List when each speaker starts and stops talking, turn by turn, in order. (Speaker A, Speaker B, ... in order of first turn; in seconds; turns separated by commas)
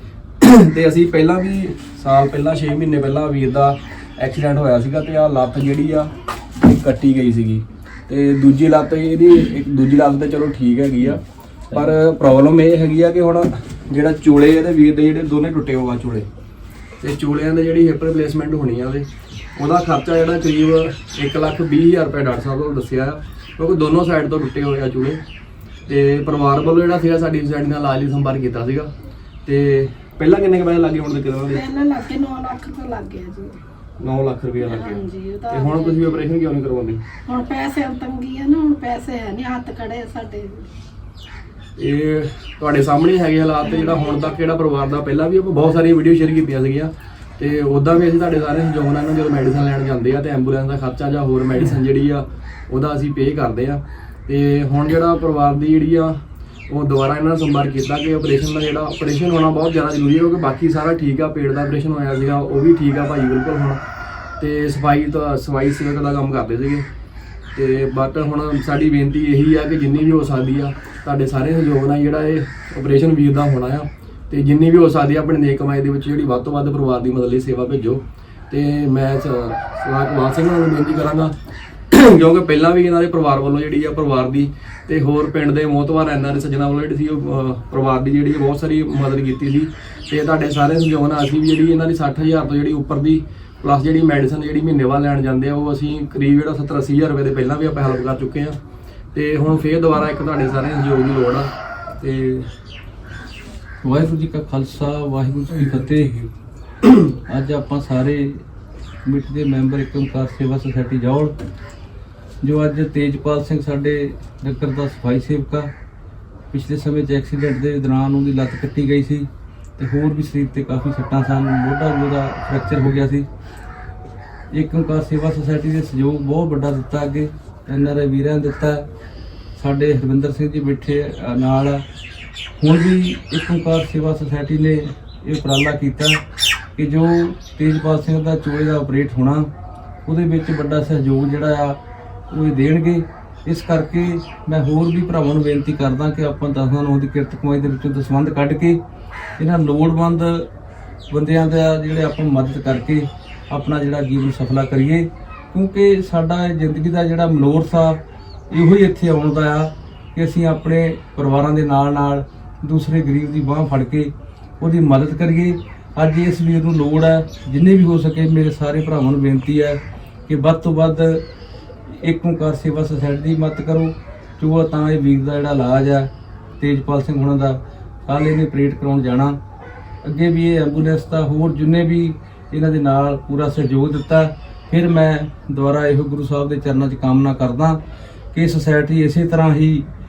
Speaker A: 0.4-11.2, Speaker A: 11.7-16.3, Speaker A: 17.0-25.2, Speaker A: 25.9-28.9, Speaker A: 29.4-31.7, Speaker B: 31.5-33.6, Speaker A: 34.0-37.0, Speaker B: 34.6-36.2, Speaker B: 37.3-40.7, Speaker A: 41.8-63.8, Speaker B: 43.7-44.0, Speaker A: 64.4-66.8, Speaker A: 67.5-81.3, Speaker A: 81.9-98.6, Speaker A: 99.1-102.5, Speaker C: 103.8-106.2, Speaker A: 105.7-106.1, Speaker C: 107.2-108.4, Speaker C: 109.0-111.3, Speaker C: 112.4-115.7, Speaker C: 116.5-123.3, Speaker C: 124.5-128.9, Speaker C: 129.6-131.8, Speaker C: 132.6-136.2, Speaker C: 136.8-139.5, Speaker C: 140.1-148.8, Speaker C: 149.4-150.5, Speaker C: 151.1-171.2, Speaker C: 171.9-179.4, Speaker C: 180.0-187.8, Speaker C: 188.3-189.9